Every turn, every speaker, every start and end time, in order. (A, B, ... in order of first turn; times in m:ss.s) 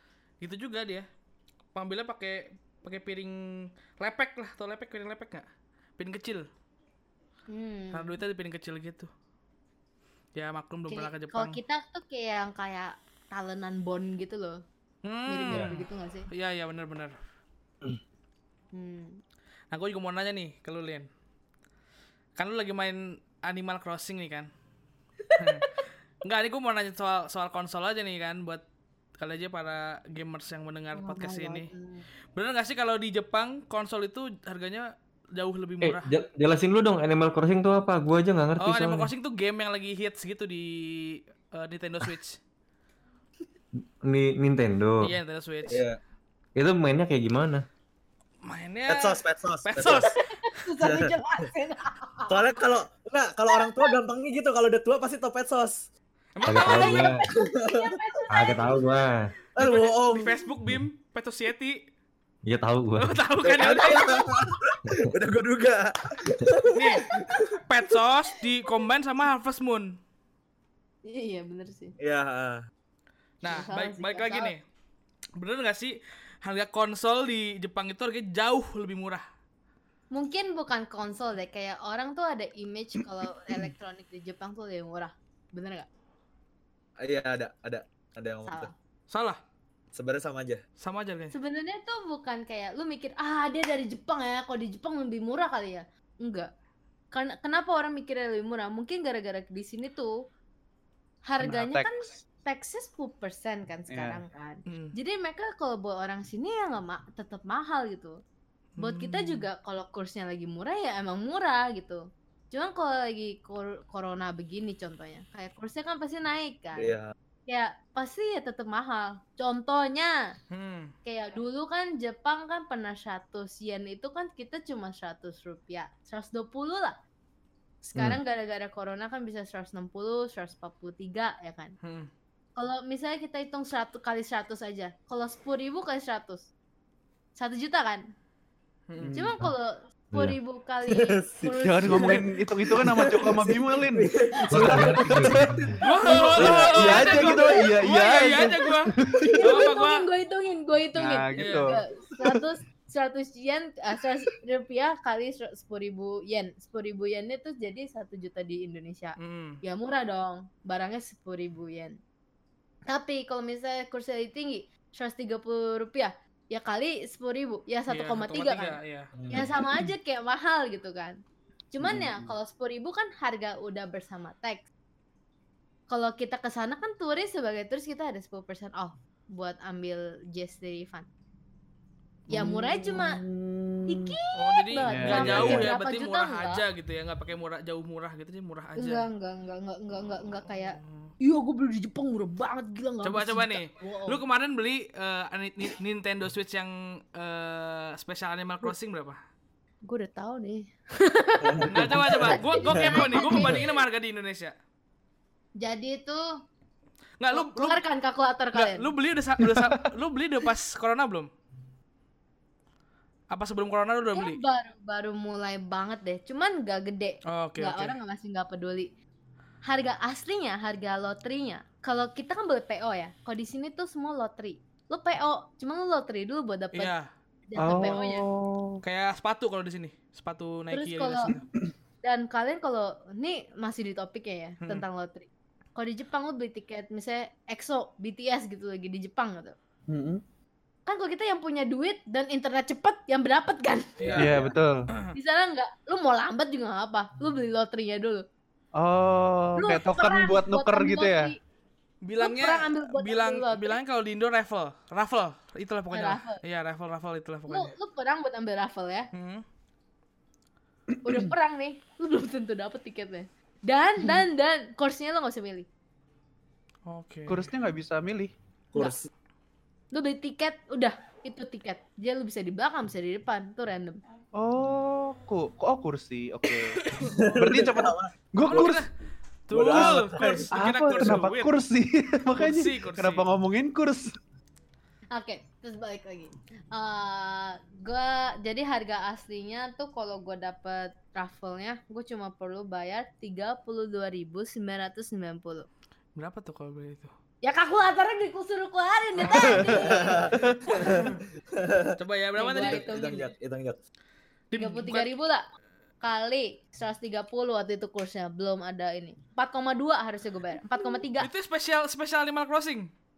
0:00.4-0:01.0 A
0:01.7-0:05.4 A
0:06.0-0:06.5 A
0:07.5-0:08.2 B
0:07.9-0:09.1 A
0:10.4-0:11.6 A
0:10.9-0:14.6 B
0:15.0-0:17.2 A
0:15.3-0:16.3 B
0:18.7-0:19.2 B
0:19.7-0:21.1 A
0:22.4-0:24.5 A
0:25.2-0:25.6 B
0:25.4-0:28.6 A
0:29.2-0:31.7 A
0:30.9-0:32.0 B
0:32.3-0:36.1 A
0:35.8-0:39.1 C
0:38.6-0:42.4 A
0:44.0-0:45.2 C
0:45.0-0:45.8 A
0:45.6-0:46.0 D
0:46.6-0:47.6 C
0:48.4-0:50.2 A
0:48.9-0:50.1 D
0:50.2-0:52.4 B
0:50.8-0:51.1 D
0:52.3-0:55.9 D
0:53.5-0:53.9 B
0:56.4-0:57.1 A
0:56.4-0:57.2 C
0:56.6-0:58.8 B
0:57.4-0:57.9 D
0:58.3-0:59.3 C
0:59.6-1:00.3 D
0:59.6-1:01.8 A
1:02.4-1:03.2 C
1:03.0-1:04.4 A
1:03.4-1:07.4 D
1:06.7-1:10.0 A
1:11.0-1:11.9 B
1:12.0-1:12.6 D
1:13.4-1:14.6 A
1:13.4-1:14.5 B
1:15.4-1:19.2 A
1:20.1-1:25.9 B
1:27.0-1:28.7 D
1:28.5-1:28.7 B
1:29.1-1:29.4 A
1:29.9-1:30.6 D
1:30.8-1:31.3 A
1:31.3-1:36.5 B
1:37.1-1:40.1 B
1:41.2-1:48.2 B
1:41.4-1:42.0 E
1:43.9-1:44.2 E
1:44.7-1:44.9 A
1:48.8-1:49.5 A
1:48.8-1:56.9 B
1:56.8-1:57.1 D
1:57.5-2:00.3 B
2:00.5-2:00.9 A
2:01.0-2:07.0 B
2:07.8-2:11.8 B
2:11.8-2:12.1 A
2:12.6-2:16.5 B
2:17.4-2:18.0 B
2:18.9-2:19.1 A
2:19.0-2:19.4 E
2:19.1-2:22.3 B
2:20.9-2:27.0 D
2:21.6-2:25.6 E
2:24.5-2:25.8 C
2:25.8-2:28.1 B
2:25.8-2:30.0 A
2:26.3-2:29.3 E
2:29.1-2:42.0 B
2:30.9-2:32.4 E
2:31.4-2:31.8 A
2:39.2-2:39.6 A
2:42.9-2:48.8 B
2:47.9-2:49.1 A
2:49.1-2:49.6 D
2:49.3-2:51.2 B
2:51.7-2:54.6 B
2:51.9-2:52.2 E
2:55.9-3:01.1 B
3:02.3-3:04.2 E
3:02.3-3:03.2 B
3:03.9-3:06.6 B
3:04.3-3:09.0 A
3:04.8-3:05.7 E
3:08.8-3:14.2 B
3:10.5-3:11.1 A
3:13.0-3:19.2 A
3:19.8-3:23.8 B
3:21.4-3:23.6 D
3:21.7-3:24.5 A
3:25.6-3:26.2 B
3:27.2-3:27.8 A
3:27.3-3:28.9 B
3:28.5-3:31.3 A
3:29.4-3:29.7 E
3:33.3-3:34.4 A
3:34.1-3:38.9 B
3:37.3-3:38.0 A
3:39.6-3:46.9 B
3:46.7-3:47.1 A
3:47.5-3:48.2 B
3:47.6-3:48.8 E
3:48.8-3:51.4 A
3:50.7-3:51.3 B
3:52.0-3:59.6 B
3:59.9-4:00.2 E
4:00.8-4:04.4 B
4:04.0-4:05.1 A
4:04.2-4:04.9 E
4:05.1-4:08.2 B
4:08.8-4:11.3 E
4:09.6-4:11.4 B
4:12.0-4:17.7 A
4:12.2-4:13.8 B
4:15.9-4:16.4 B
4:17.5-4:19.1 B
4:19.1-4:19.4 A
4:21.0-4:25.7 B
4:26.9-4:27.5 A
4:27.3-4:28.3 E
4:28.7-4:29.1 D
4:29.9-4:34.0 B
4:34.4-4:36.8 E
4:36.8-4:37.3 A
4:37.0-4:38.7 D
4:37.4-4:38.8 E
4:38.5-4:38.9 A
4:39.5-4:41.5 A
4:39.5-4:41.2 D
4:39.7-4:44.2 E
4:42.3-4:43.2 A
4:45.1-4:55.7 B
4:56.2-4:57.1 A
4:57.4-5:01.1 B
4:59.2-4:59.8 A
4:59.4-4:59.7 E
4:59.6-5:01.9 D
5:00.3-5:00.6 E
5:00.8-5:01.2 A
5:01.9-5:03.0 A
5:02.4-5:03.3 B
5:02.6-5:03.8 D
5:04.5-5:05.1 A
5:04.5-5:05.4 B
5:06.0-5:11.3 B
5:11.2-5:12.9 A